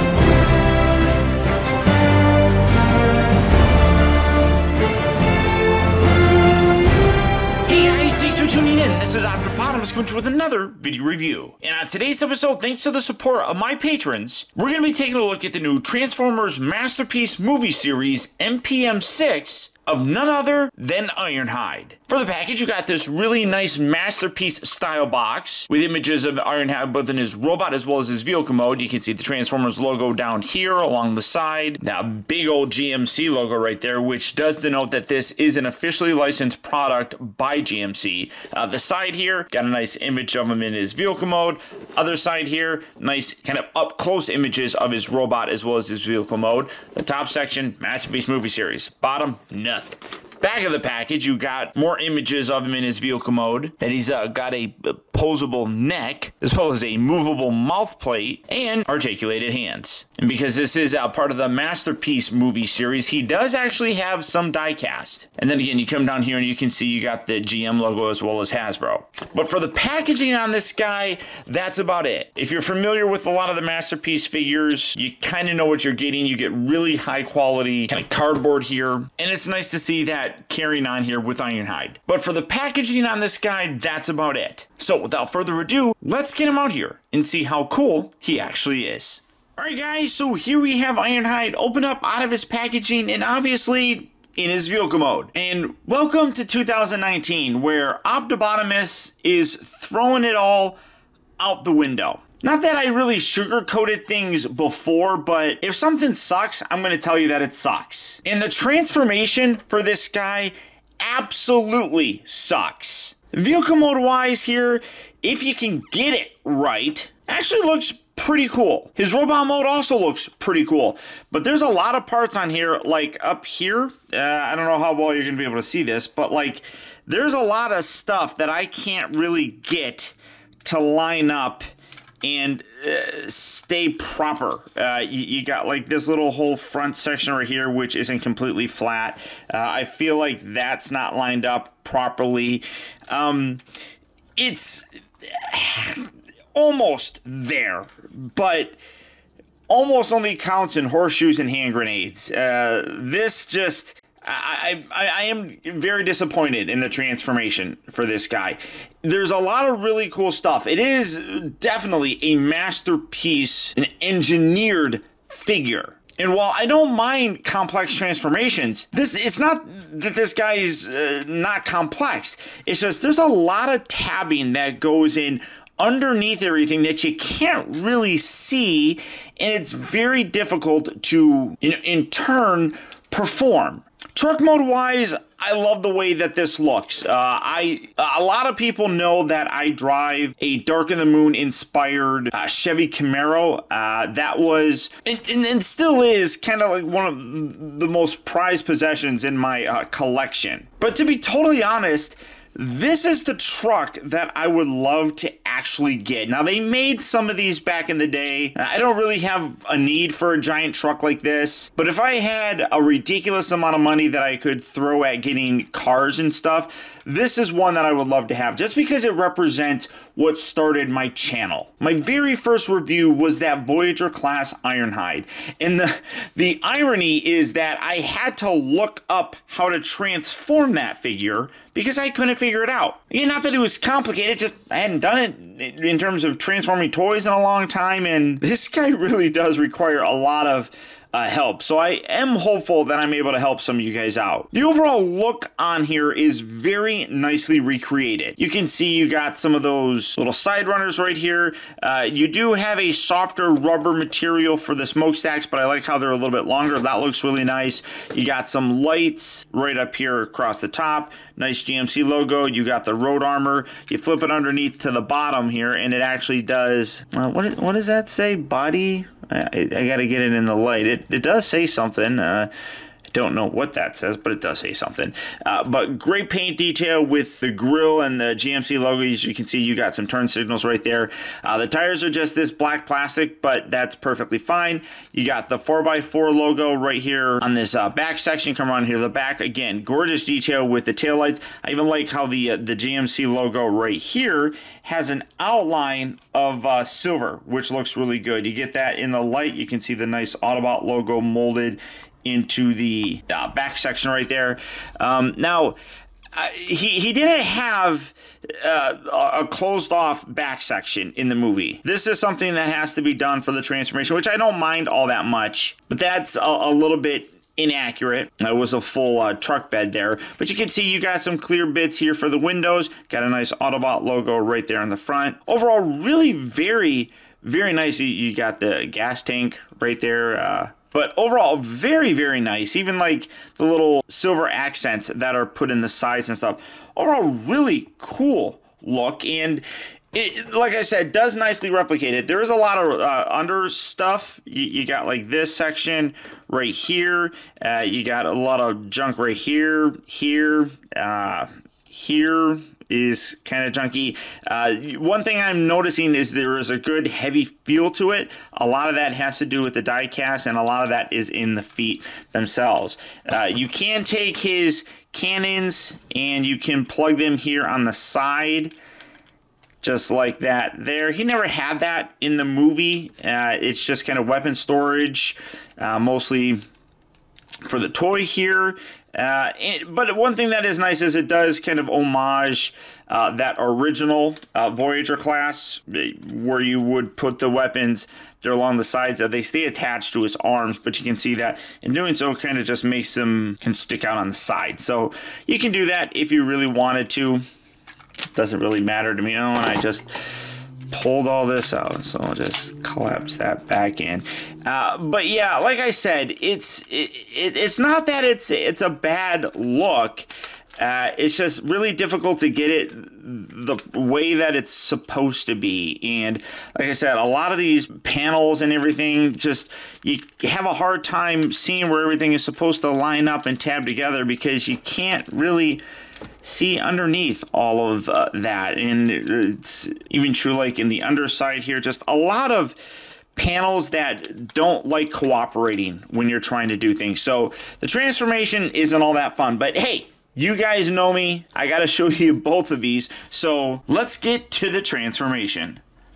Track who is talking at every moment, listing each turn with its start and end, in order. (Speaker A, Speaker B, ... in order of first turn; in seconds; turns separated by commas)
Speaker A: 7.7-100.8, Speaker A: 101.4-131.7, Speaker A: 132.2-143.6, Speaker A: 144.4-148.8, Speaker A: 149.7-272.5, Speaker A: 273.1-305.8, Speaker A: 306.3-368.8, Speaker A: 369.8-376.6, Speaker A: 377.6-397.4, Speaker A: 398.3-425.8, Speaker A: 426.4-432.8, Speaker A: 433.4-445.8